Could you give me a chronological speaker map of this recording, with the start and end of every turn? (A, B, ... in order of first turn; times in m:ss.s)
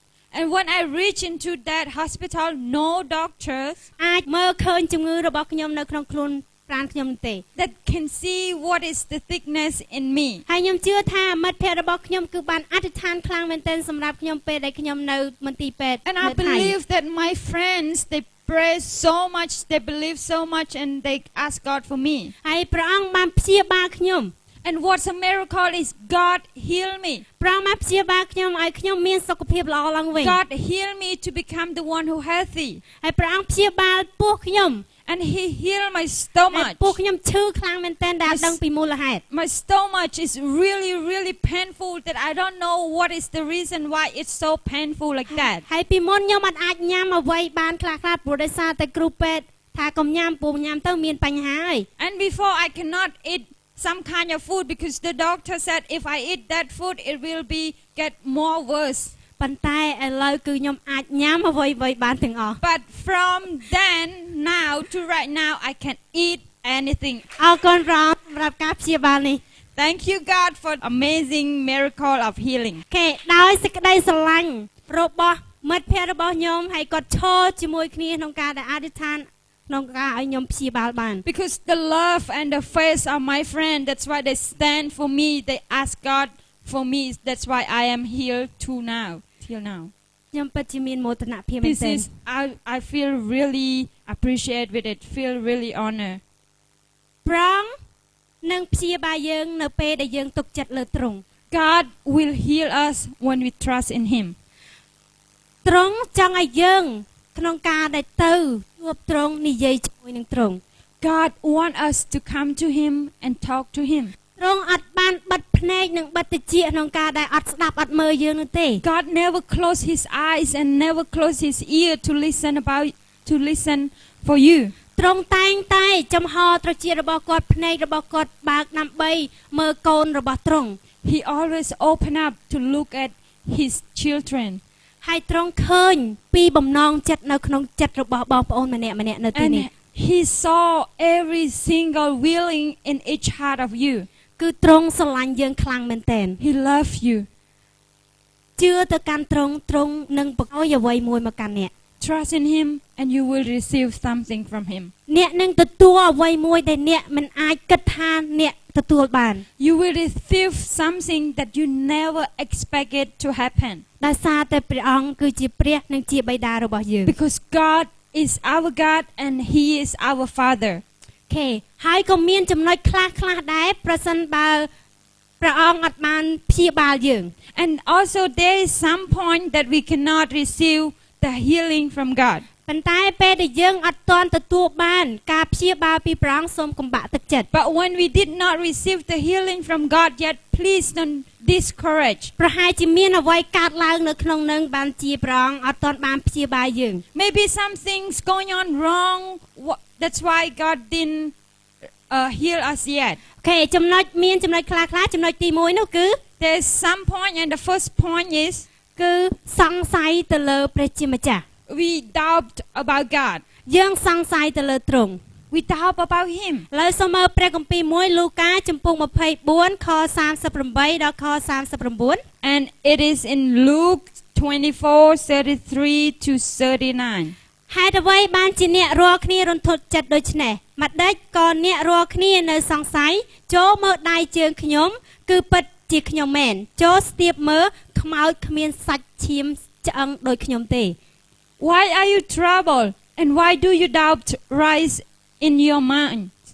0:00.3-0:03.8 A
0:04.0-0:07.4 B
0:07.6-0:10.4 A
0:10.5-0:16.8 B
0:16.0-0:22.3 A
0:22.4-0:24.3 B
0:24.6-0:27.2 A
0:27.4-0:30.4 B
0:30.2-0:32.8 A
0:33.0-0:34.8 B
0:35.1-0:37.0 A
0:36.5-0:39.2 B
0:38.3-0:38.6 A
0:39.3-0:45.6 A
0:45.3-0:51.9 B
0:52.0-0:59.1 A
0:59.4-1:02.6 B
1:02.6-1:07.2 A
1:07.4-1:09.4 B
1:09.8-1:12.8 A
1:12.9-1:21.2 B
1:21.2-1:29.9 A
1:30.3-1:32.1 B
1:31.6-1:36.2 A
1:37.2-1:37.7 B
1:38.4-1:41.2 B
1:41.5-1:44.3 A
1:45.6-1:50.6 B
1:51.0-1:54.1 A
1:54.4-1:58.8 B
1:58.8-2:04.7 A
2:05.0-2:10.8 B
2:11.0-2:14.6 A
2:15.0-2:19.7 B
2:19.3-2:24.1 A
2:24.4-2:26.4 B
2:26.4-2:27.3 A
2:28.6-2:31.7 B
2:32.0-2:34.9 A
2:35.1-2:39.4 B
2:39.6-2:43.8 A
2:44.0-2:47.1 B
2:47.0-2:50.8 A
2:51.3-2:54.7 B
2:55.4-2:57.3 B
2:57.6-3:02.4 A
3:02.7-3:07.5 B
3:07.5-3:12.3 A
3:12.4-3:17.0 B
3:17.2-3:21.3 A
3:22.1-3:23.2 A
3:23.4-3:26.2 B
3:26.4-3:28.7 A
3:29.0-3:31.4 B
3:31.7-3:33.4 A
3:33.7-3:35.2 B
3:35.5-3:36.7 A
3:36.7-3:42.2 B
3:42.4-3:47.3 A
3:47.7-4:01.0 B
4:01.6-4:06.3 A